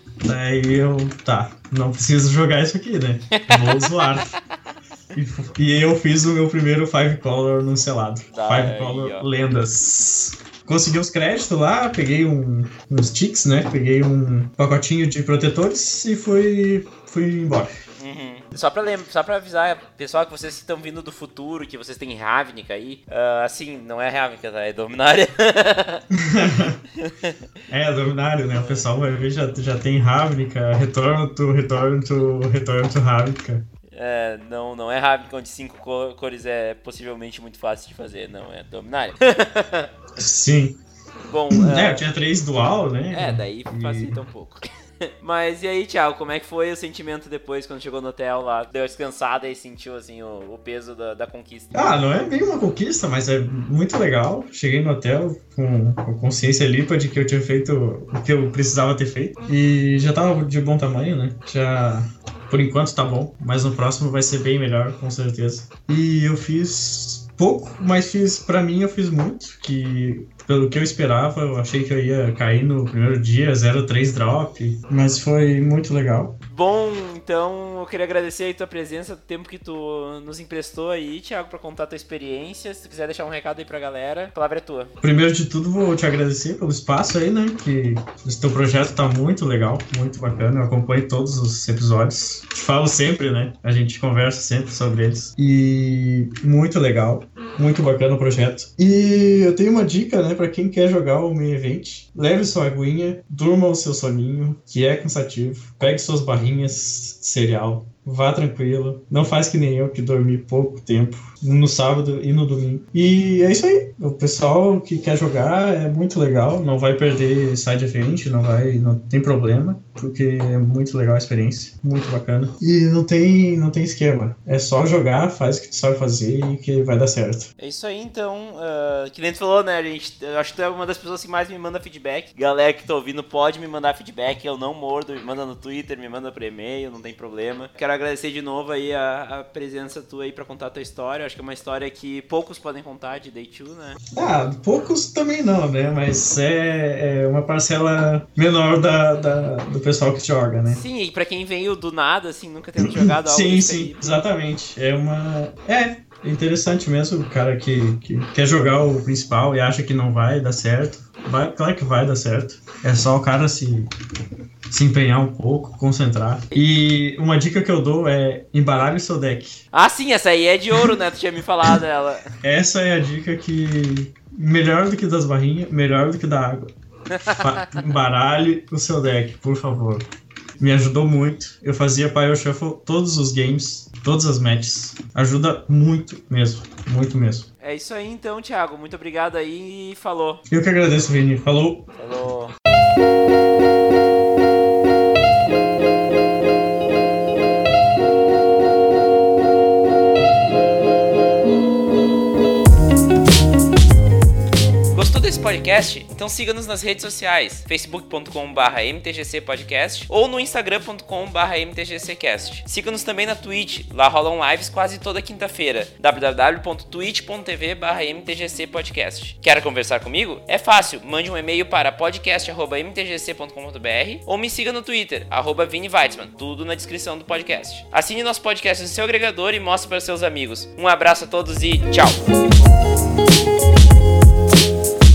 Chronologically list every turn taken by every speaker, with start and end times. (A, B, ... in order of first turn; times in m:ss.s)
0:00.2-0:04.4 A
0:03.3-0:04.2 B
0:05.2-0:17.8 A
0:08.3-0:09.3 B
0:18.0-0:26.0 B
0:26.1-0:26.8 A
0:27.0-0:27.4 B
0:27.7-0:33.6 A
0:28.5-0:28.8 B
0:33.9-0:39.9 B
0:40.2-0:40.8 A
0:41.3-0:42.0 B
0:41.5-0:44.2 A
0:43.1-0:44.7 B
0:45.2-0:52.1 B
0:51.7-1:16.4 A
1:16.5-1:24.9 B
1:25.0-2:07.5 A
2:07.6-2:24.0 B
2:24.1-2:30.8 A
2:30.7-2:34.2 B
2:32.8-2:43.9 A
2:44.7-2:49.6 A
2:49.7-2:52.4 B
2:52.4-2:56.7 A
2:57.1-2:58.0 B
2:57.2-3:00.1 A
3:00.6-3:07.5 A
3:07.6-3:10.4 B
3:10.5-3:11.9 A
3:12.0-3:12.6 B
3:24.9-3:52.2 B